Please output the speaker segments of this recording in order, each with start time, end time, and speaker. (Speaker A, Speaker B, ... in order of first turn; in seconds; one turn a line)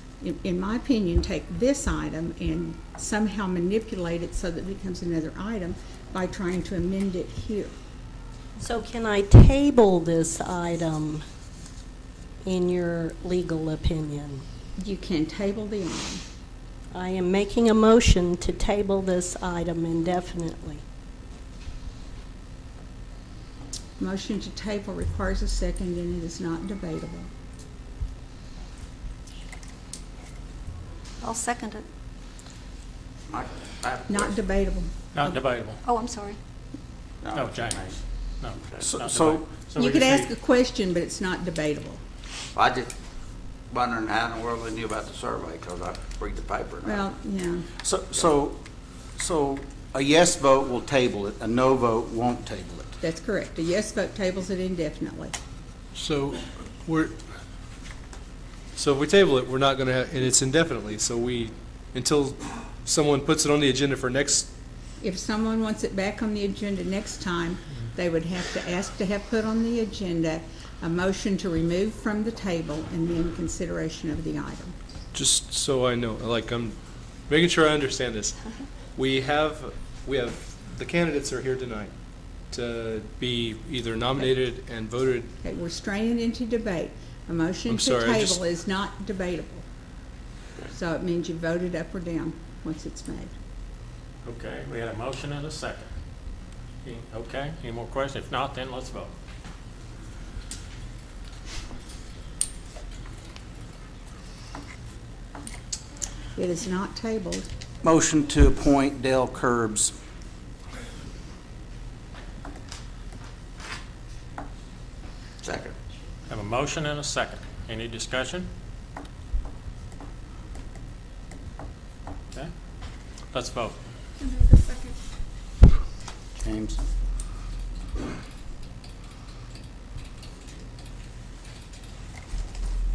Speaker A: 0.2-7.7
Speaker B: 8.6-11.2
Speaker B: 12.4-14.4
Speaker A: 14.8-16.2
Speaker B: 16.9-20.8
Speaker A: 24.0-27.3
Speaker C: 31.2-31.9
Speaker D: 33.3-34.4
Speaker A: 34.1-34.9
Speaker E: 35.1-35.8
Speaker C: 35.8-36.4
Speaker D: 37.2-38.0
Speaker E: 37.3-37.8
Speaker E: 38.4-40.3
Speaker F: 38.8-39.5
Speaker A: 39.8-42.0
Speaker D: 42.5-42.9
Speaker D: 43.7-47.1
Speaker A: 46.9-47.7
Speaker F: 47.8-48.6
Speaker F: 49.2-52.9
Speaker A: 53.0-55.4
Speaker G: 56.0-57.2
Speaker G: 58.8-64.5
Speaker A: 65.0-74.8
Speaker G: 75.1-78.4
Speaker G: 79.0-81.9
Speaker G: 82.5-85.3
Speaker A: 85.4-89.7
Speaker G: 87.7-88.4
Speaker A: 90.7-93.3
Speaker E: 94.2-95.9
Speaker E: 96.8-99.1
Speaker A: 106.3-107.5
Speaker F: 107.8-109.9
Speaker D: 115.4-115.8
Speaker E: 116.3-118.5
Speaker E: 123.3-123.8
Speaker C: 124.2-125.0
Speaker F: 126.4-126.8